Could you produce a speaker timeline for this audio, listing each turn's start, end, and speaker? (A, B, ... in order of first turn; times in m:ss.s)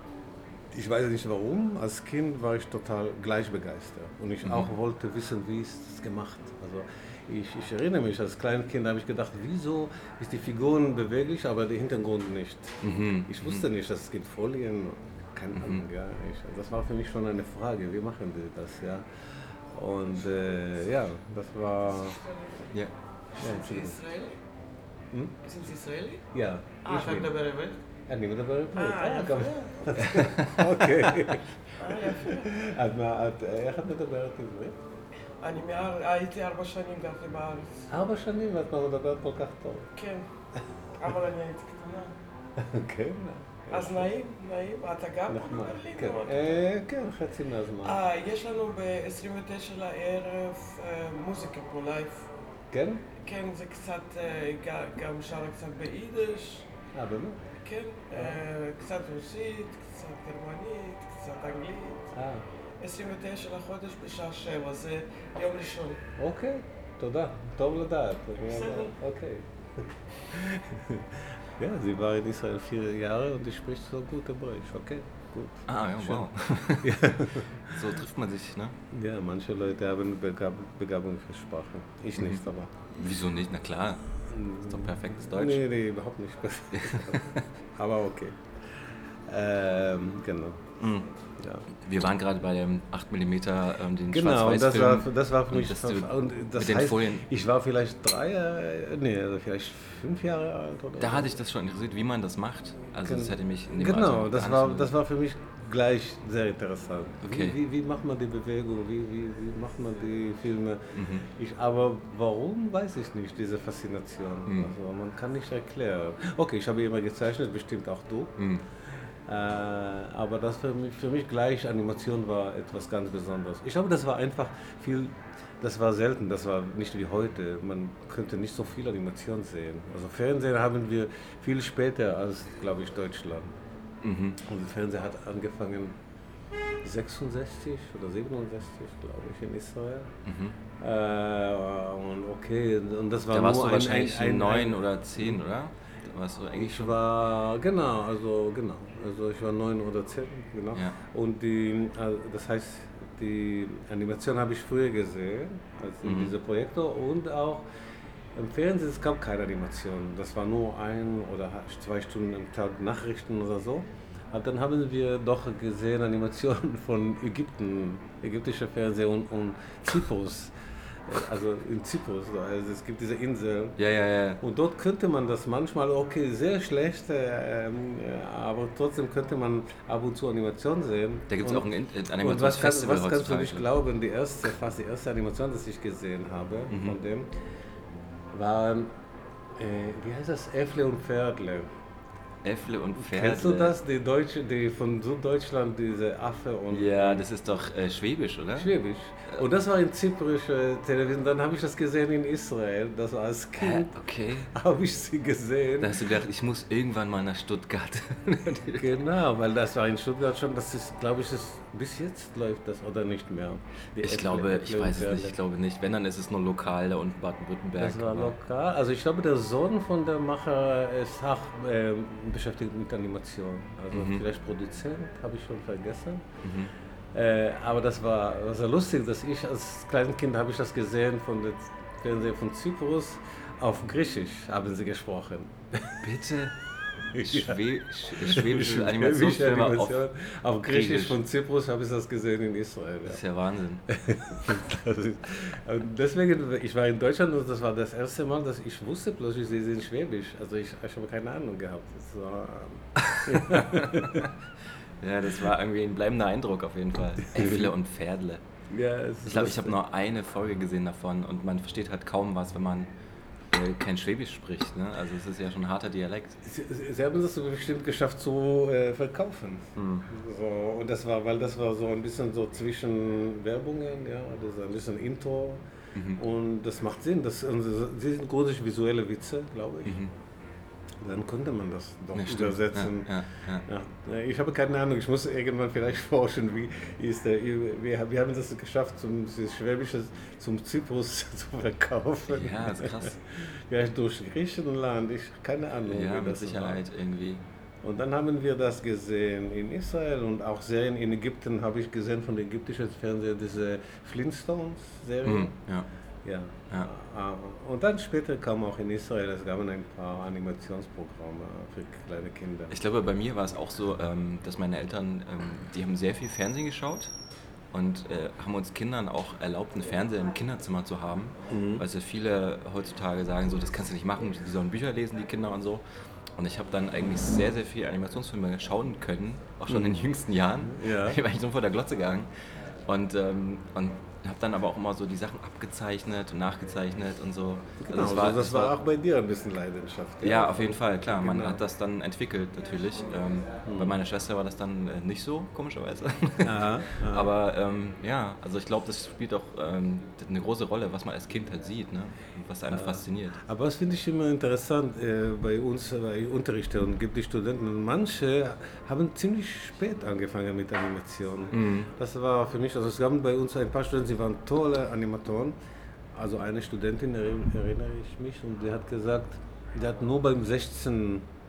0:00.7-0:19.0 A
0:04.4-0:04.7 B
0:12.8-0:13.6 B
0:15.5-0:15.8 B
0:19.7-0:22.2 A
0:23.3-0:24.3 C
0:23.4-0:24.0 A
0:25.4-0:26.3 C
0:26.3-0:27.3 A
0:26.8-0:27.8 C
0:28.1-0:34.8 A
0:28.7-0:29.7 C
0:30.0-0:31.4 B
0:31.8-0:32.5 C
0:35.4-0:37.9 C
0:37.9-0:39.9 A
0:40.0-0:40.2 C
0:41.0-0:42.1 C
0:42.6-0:44.1 A
0:43.7-0:46.6 C
0:45.3-0:48.0 A
0:47.8-0:52.3 C
0:52.7-0:53.0 A
0:53.2-0:56.7 C
0:56.9-0:57.4 A
0:57.6-1:02.1 C
1:02.1-1:02.4 A
1:02.8-1:06.0 C
1:06.2-1:17.8 A
1:08.5-1:08.9 C
1:15.7-1:18.8 B
1:18.9-1:22.7 A
1:22.9-1:24.0 B
1:24.3-1:31.7 A
1:24.6-1:25.6 B
1:26.8-1:27.4 B
1:31.7-1:37.3 B
1:34.1-1:41.3 A
1:41.0-1:44.9 B
1:43.0-1:58.4 A
1:47.2-1:47.6 B
1:50.9-1:51.2 B
1:54.5-1:54.7 B
1:58.4-1:58.6 B
1:59.2-2:13.6 A
2:14.0-2:14.4 B
2:14.4-2:16.0 A
2:16.8-2:20.1 A
2:20.2-2:20.6 B
2:20.8-2:25.4 A
2:23.3-2:27.0 B
2:26.6-2:37.6 A
2:36.0-2:36.3 B
2:38.3-2:50.5 A
2:51.1-2:53.8 A
2:53.8-2:54.4 B
2:54.4-3:07.3 A
3:01.3-3:03.7 B
3:06.7-3:07.0 B
3:08.3-3:08.9 A
3:09.6-3:11.7 A
3:12.4-3:13.8 B
3:13.0-3:17.2 A
3:16.7-3:18.7 B
3:18.6-3:23.9 A
3:23.6-3:24.5 B
3:24.5-3:26.0 A
3:25.8-3:29.0 B
3:28.8-3:35.4 A
3:34.0-3:38.3 B
3:37.8-3:46.2 A
3:43.9-3:44.2 B
3:46.4-3:46.7 B
3:47.1-3:56.0 A
3:56.0-3:56.5 B
3:57.1-4:03.2 A
3:57.2-4:00.1 B
4:00.6-4:01.2 B
4:03.0-4:03.8 B
4:03.9-4:14.3 A
4:13.1-4:14.3 B
4:15.0-4:18.4 B
4:17.3-4:17.7 A
4:18.7-4:19.8 A
4:19.2-4:22.9 B
4:23.5-4:26.4 B
4:26.4-4:40.0 A
4:35.9-4:36.2 B
4:39.8-4:40.1 B
4:41.0-4:56.8 A
4:42.1-4:43.6 B
4:52.3-4:53.2 B
4:55.8-4:57.4 B
4:57.8-5:05.5 A
5:05.2-5:05.9 B
5:06.2-5:12.7 A
5:12.7-5:17.1 B
5:17.7-5:25.8 B
5:21.5-5:21.8 A
5:26.4-5:32.3 B
5:29.7-5:30.0 A
5:30.6-5:31.2 A
5:32.8-5:38.7 B
5:37.8-5:41.6 A
5:40.2-5:53.4 B
5:43.6-5:44.0 A
5:46.4-5:47.3 A
5:52.7-6:05.6 A
6:01.5-6:01.9 B
6:06.1-6:11.3 A